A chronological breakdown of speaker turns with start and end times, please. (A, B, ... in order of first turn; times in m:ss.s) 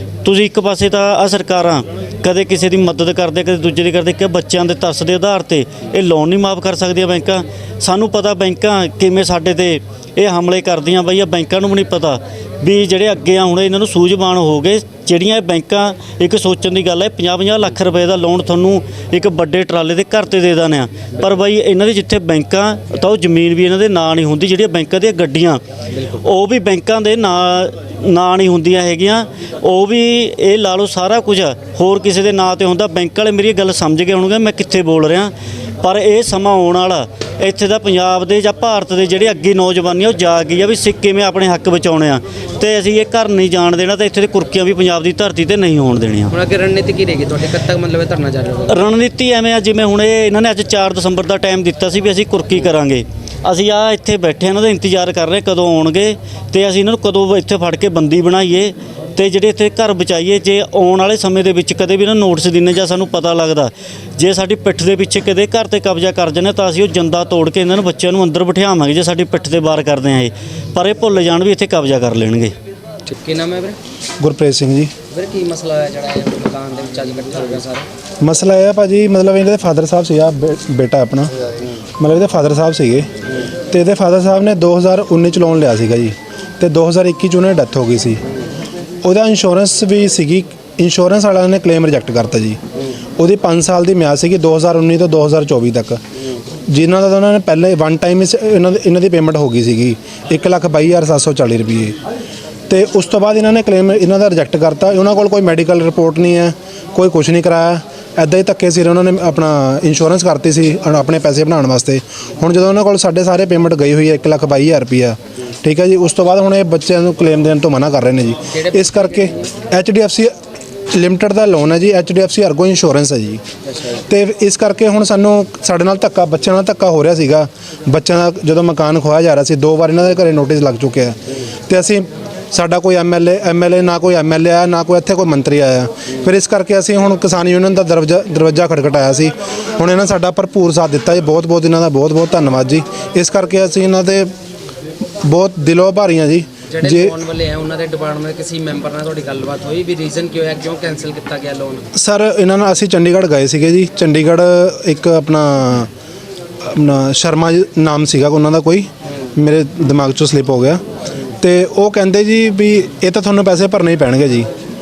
0:00.2-0:25.6 A
0:25.9-0:26.2 B
0:26.2-0:46.3 A
0:46.3-0:48.8 B
0:48.7-1:12.5 A
1:13.0-1:13.8 B
1:14.2-1:14.9 C
1:15.1-1:17.9 B
1:18.2-1:21.3 C
1:22.0-1:23.1 C
1:23.7-1:28.2 C
1:29.0-1:32.6 C
1:33.2-1:36.0 C
1:36.2-1:36.4 B
1:36.7-1:42.0 C
1:42.7-1:59.1 C
1:58.5-1:59.7 B
1:59.7-2:00.3 C
2:00.9-2:03.4 C
2:03.6-2:04.0 B
2:04.1-2:11.1 C
2:11.7-2:24.3 C
2:25.2-2:27.0 C
2:26.7-2:31.9 B
2:32.0-2:35.9 C
2:36.6-2:40.8 C
2:41.4-2:44.5 C